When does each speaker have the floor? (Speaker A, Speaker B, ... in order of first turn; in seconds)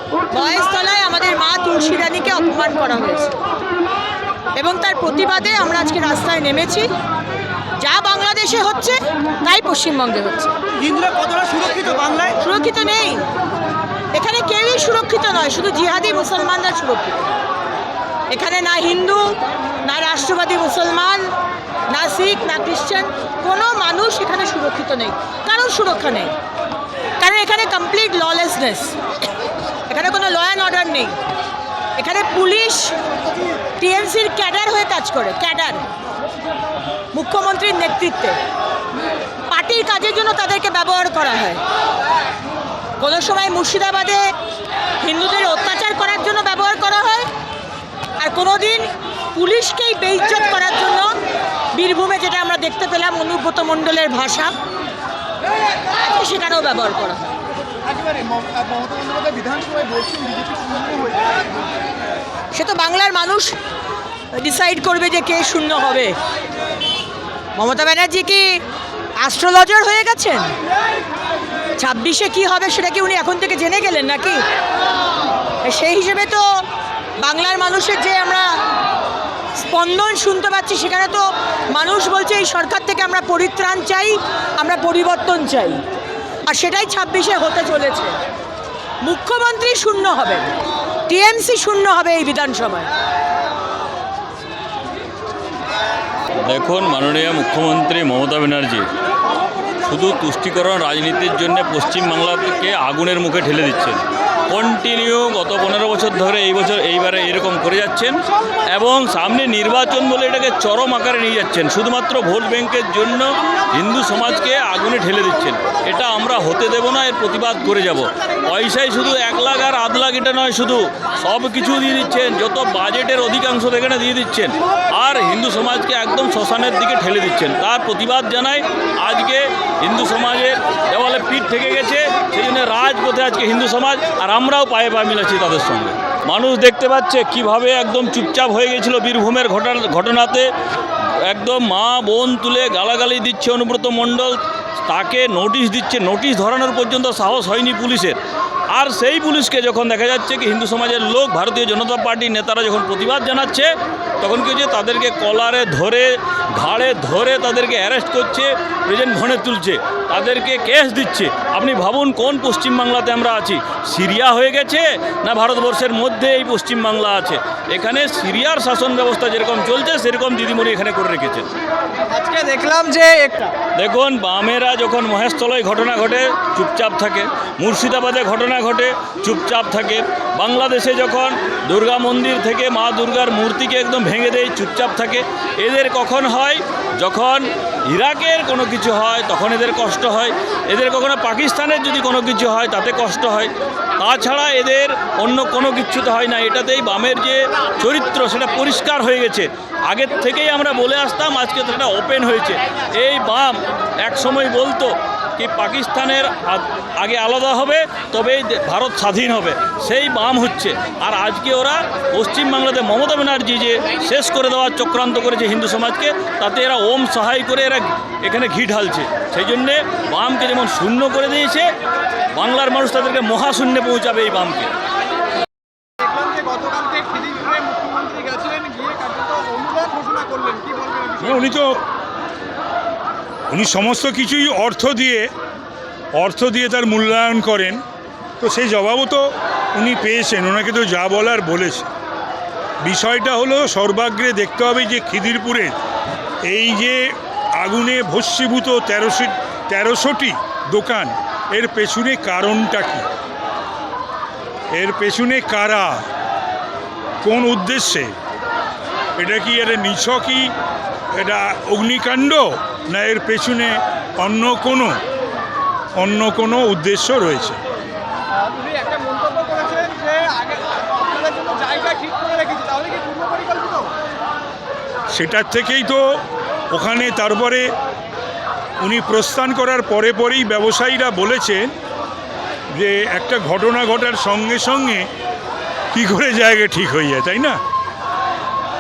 Speaker A: 0.3-3.4, 4.5-6.9, 7.8-10.5, 12.4-13.2, 14.1-17.4, 18.3-21.3, 21.9-26.4, 27.2-29.0, 29.9-31.2, 32.0-33.0, 33.8-35.9, 37.1-38.4, 39.5-41.6, 43.0-44.3, 45.0-47.3, 48.2-51.1, 51.7-54.5, 55.9-57.3, 62.5-63.6, 64.3-66.2, 67.6-68.6, 69.2-70.5, 71.8-74.4, 75.6-76.7, 77.2-78.6, 79.5-85.8, 86.5-88.2, 89.0-90.5, 91.1-92.9
Speaker B: 10.8-12.3, 57.9-61.5, 172.1-173.6, 226.0-231.4, 268.3-273.9
Speaker C: 96.4-98.9, 99.8-148.2, 148.7-171.5, 173.8-221.7, 222.3-224.7
Speaker D: 231.2-231.8, 233.5-235.3, 236.2-237.8, 238.4-241.9, 242.8-245.8, 246.5-253.1, 254.7-256.1, 257.2-258.1, 259.2-260.5, 261.1-265.0, 266.0-267.6, 275.1-276.2, 276.7-277.7, 278.8-281.7, 282.7-285.1, 285.9-287.6